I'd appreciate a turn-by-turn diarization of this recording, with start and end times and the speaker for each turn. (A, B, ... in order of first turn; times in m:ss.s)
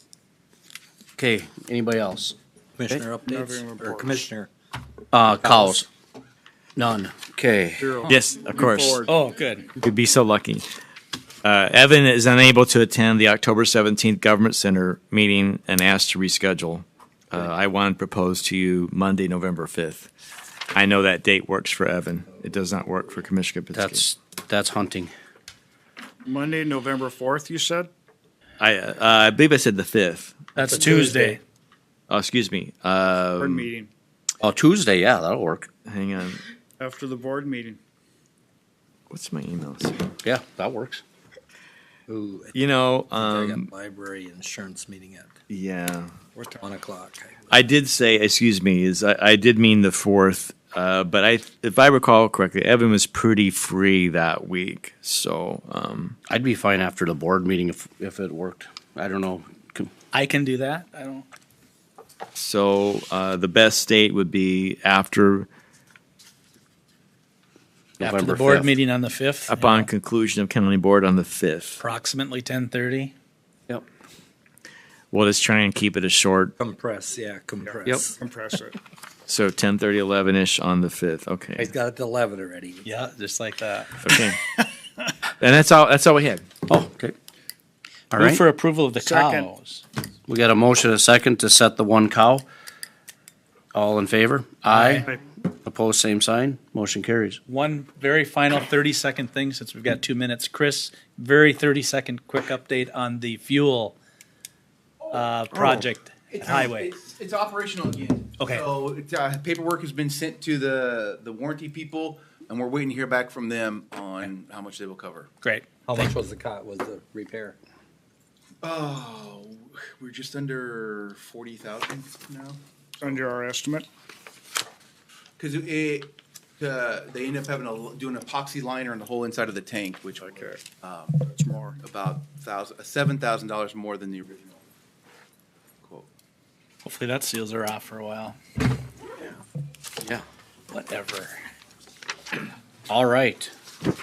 0:01.2-0:02.4 A
0:02.8-0:04.5 B
0:03.4-0:04.2 C
0:05.1-0:05.9 A
0:05.4-0:05.8 B
0:06.8-0:08.1 A
0:07.8-0:09.1 C
0:08.1-0:09.1 D
0:09.1-0:09.7 E
0:09.8-0:10.6 D
0:11.4-0:20.1 D
0:20.7-0:24.0 D
0:23.7-0:25.1 A
0:26.3-0:27.9 C
0:28.6-0:30.5 D
0:30.6-0:31.4 E
0:30.7-0:31.4 B
0:32.1-0:33.7 D
0:33.4-0:33.9 C
0:34.4-0:35.7 A
0:35.9-0:36.4 D
0:36.8-0:37.8 C
0:39.1-0:40.0 D
0:40.2-0:41.0 A
0:42.1-0:42.6 B
0:42.6-0:43.7 D
0:43.1-0:45.3 B
0:45.5-0:46.1 D
0:46.4-0:46.6 C
0:46.6-0:47.5 B
0:47.5-0:56.2 D
0:56.3-0:59.9 A
1:00.1-1:01.3 E
1:02.4-1:05.5 D
1:08.0-1:08.7 A
1:08.0-1:09.9 E
1:09.5-1:11.8 D
1:11.8-1:13.1 E
1:15.1-1:16.5 D
1:16.6-1:18.2 B
1:17.7-1:18.8 C
1:19.3-1:21.7 D
1:21.6-1:22.9 B
1:22.8-1:24.2 E
1:24.0-1:24.4 D
1:25.4-1:26.4 D
1:26.7-1:27.2 A
1:28.1-1:28.4 A
1:28.2-1:29.8 E
1:29.0-1:29.5 C
1:30.3-1:32.4 A
1:33.7-1:35.1 A
1:34.7-1:35.1 E
1:35.6-1:37.4 A
1:37.5-1:44.0 E
1:45.0-1:55.3 F
1:45.1-1:46.9 E
1:48.4-1:48.7 E
1:55.4-1:56.2 E
1:55.9-1:57.6 B
1:58.6-2:02.6 F
2:03.0-2:03.9 C
2:05.4-2:11.2 F
2:10.3-2:10.6 C
2:11.2-2:11.8 C
2:11.8-2:14.6 F
2:15.8-2:16.1 F
2:16.8-2:18.4 E
2:20.7-2:21.4 E
2:22.9-2:23.5 A